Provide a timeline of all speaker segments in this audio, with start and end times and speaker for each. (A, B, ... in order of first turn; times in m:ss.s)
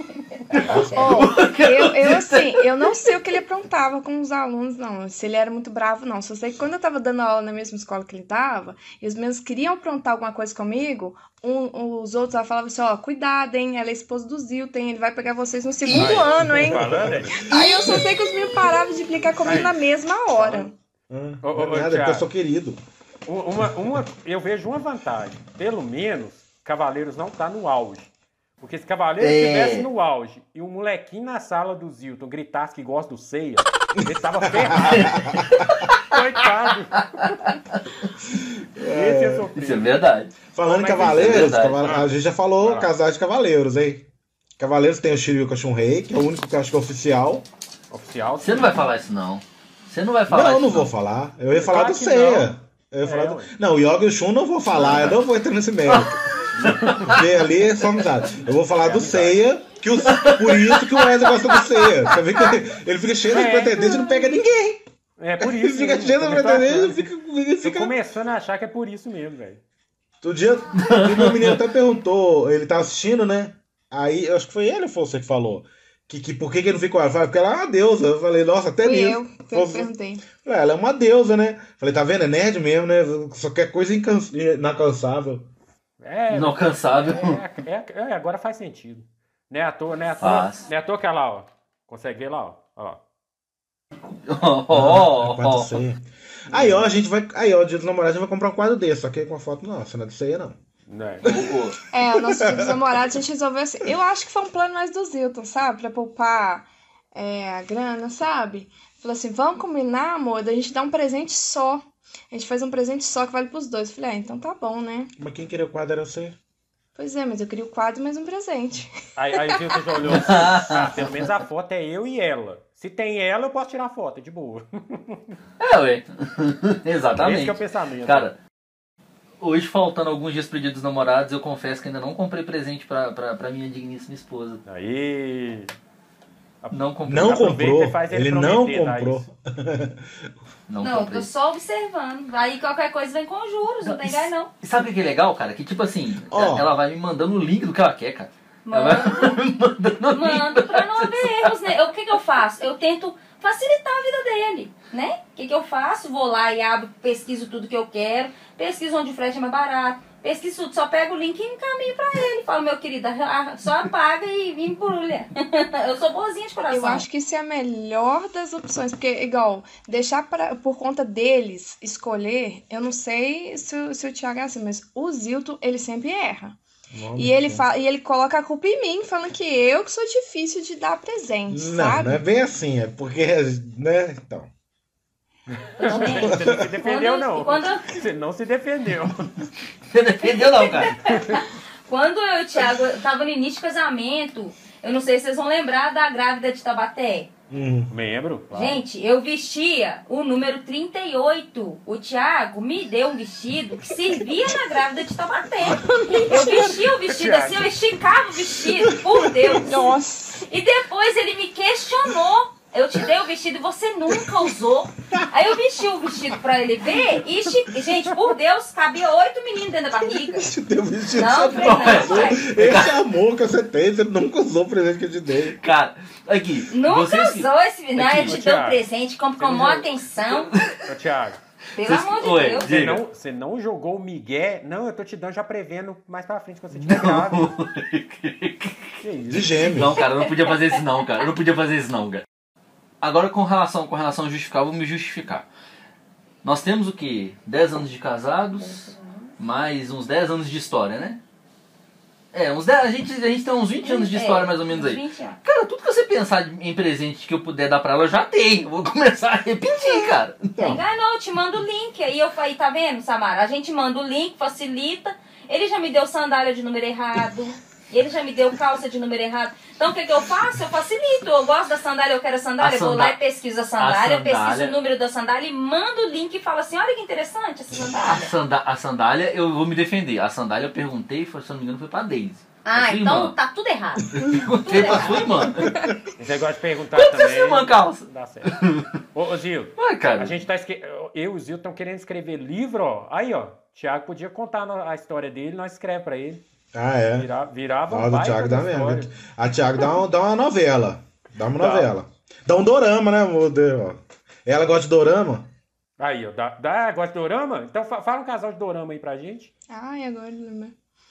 0:00.5-0:03.1 A
0:00.5-0:01.0 B
0:00.5-0:01.2 C
0:00.9-0:20.7 D
0:15.9-0:17.4 B
0:15.9-0:18.0 C
0:19.4-0:19.8 B
0:20.3-0:20.7 B
0:21.1-0:22.8 C
0:21.4-0:22.3 B
0:23.2-0:35.3 B
0:29.2-0:29.9 A
0:34.0-0:35.7 C
0:34.9-0:36.2 A
0:35.9-0:37.4 B
0:38.6-0:39.5 C
0:38.8-0:39.9 B
0:39.6-0:40.3 A
0:40.5-0:44.1 C
0:40.6-0:42.9 B
0:40.9-0:42.0 A
0:44.6-0:47.4 C
0:47.9-0:48.8 B
0:48.4-0:50.9 A
0:50.3-0:56.2 C
0:51.5-0:53.5 B
0:55.9-0:57.2 A
0:56.5-0:57.2 B
0:57.0-1:04.8 C
0:58.8-0:59.4 B
1:00.0-1:01.9 A
1:03.3-1:04.1 B
1:05.2-1:07.1 B
1:05.4-1:07.9 C
1:07.6-1:09.6 B
1:10.2-1:25.5 C
1:10.8-1:11.6 A
1:18.8-1:20.2 D
1:26.0-1:33.0 B
1:26.3-1:27.4 A
1:30.2-1:30.6 A
1:34.2-1:35.8 A
1:34.7-1:40.6 C
1:36.5-1:36.9 B
1:40.9-1:41.3 B
1:41.2-1:41.6 C
1:41.2-1:41.8 A
1:41.9-1:55.1 D
1:42.1-1:42.8 C
1:55.2-1:56.4 C
1:57.0-1:59.6 D
1:59.2-2:05.4 B
2:00.1-2:01.3 A
2:05.6-2:08.4 A
2:07.1-2:08.3 B
2:09.4-2:14.6 A
2:14.6-2:15.8 B
2:16.6-2:19.2 B
2:16.7-2:17.5 A
2:17.0-2:20.3 C
2:20.7-2:21.3 A
2:20.8-2:24.5 E
2:23.8-2:31.5 A
2:26.3-2:26.7 C
2:28.6-2:29.4 E
2:30.1-2:47.0 E
2:46.7-2:56.6 D
2:56.9-2:57.6 C
2:57.2-3:02.2 D
3:01.5-3:04.5 C
3:05.8-3:09.4 B
3:05.8-3:07.8 E
3:09.9-3:11.0 A
3:10.2-3:17.3 E
3:11.0-3:11.4 B
3:17.5-3:17.9 C
3:17.9-3:18.8 B
3:18.5-3:29.9 E
3:26.1-3:26.5 D
3:26.3-3:27.7 B
3:28.7-3:29.7 C
3:29.6-3:30.4 D
3:30.4-3:40.5 E
3:34.2-3:34.4 C
3:40.2-3:45.6 C
3:41.1-3:42.6 E
3:41.6-3:43.0 A
3:45.6-3:48.4 A
3:46.7-3:50.5 E
3:48.2-3:48.8 B
3:49.4-3:49.9 B
3:50.3-3:50.8 A
3:50.8-3:51.4 B
3:51.8-3:52.7 E
3:51.8-3:53.0 A
3:52.6-3:57.5 B
3:56.7-3:59.0 A
3:59.0-3:59.7 B
3:59.3-4:00.0 C
3:59.7-4:02.2 A
4:00.0-4:00.6 E
4:03.0-4:05.4 A
4:06.4-4:11.2 A
4:08.5-4:09.3 E
4:12.3-4:20.6 A
4:13.8-4:15.4 E
4:20.6-4:20.8 C
4:20.6-4:38.3 E
4:32.6-4:33.2 A
4:33.8-4:34.7 A
4:37.9-4:43.3 A
4:42.6-4:45.5 E
4:44.1-4:45.8 A
4:45.6-4:45.8 C
4:46.2-4:48.6 B
4:46.9-4:48.9 A
4:49.1-4:56.4 B
4:49.8-4:50.3 A
4:56.7-4:57.3 C
4:57.2-4:59.1 B
4:57.9-5:05.5 C
5:01.6-5:01.9 B
5:06.0-5:09.5 B
5:09.7-5:10.7 D